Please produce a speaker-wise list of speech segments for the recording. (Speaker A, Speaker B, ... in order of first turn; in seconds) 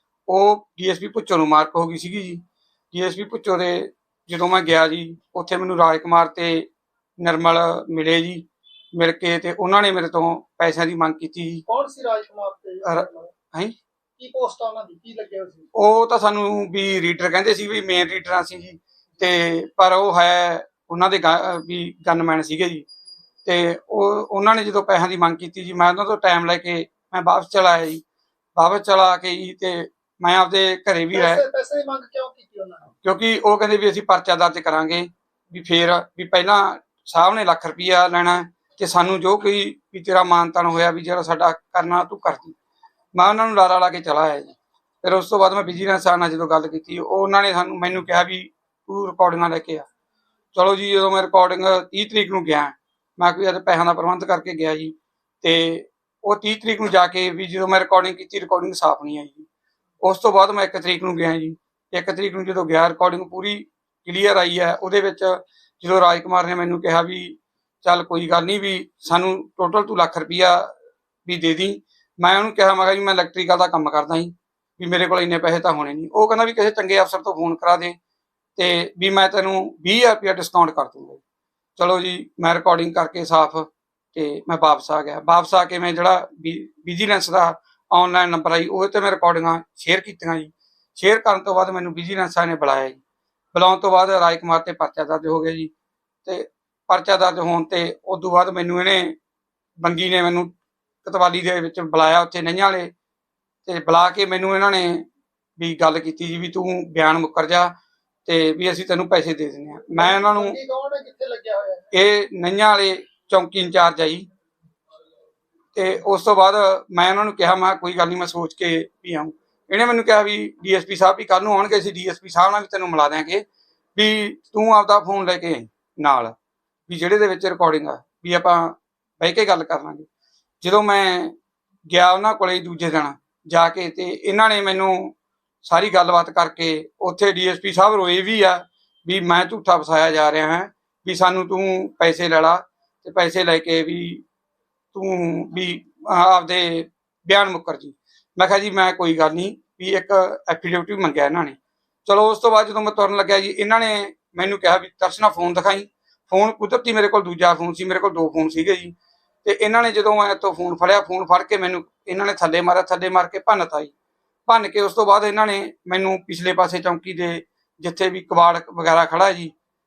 Speaker A: 0.3-11.6, 12.8-13.8, 15.7-22.9, 23.4-28.0, 28.6-31.4, 33.0-42.5, 43.1-49.9, 50.5-59.5, 60.0-70.7, 71.2-78.0, 78.5-81.2, 81.8-93.0, 93.5-95.7, 96.2-99.2, 99.8-100.5, 101.0-102.9, 103.6-105.0, 105.6-107.7, 108.2-110.6, 111.9-114.2, 115.7-123.4, 123.9-126.3, 126.9-130.1, 130.6-131.3, 131.9-135.1, 135.6-144.2, 144.9-163.9, 164.5-169.5
Speaker B: 11.7-13.3, 14.2-15.7, 31.1-32.9, 109.9-111.8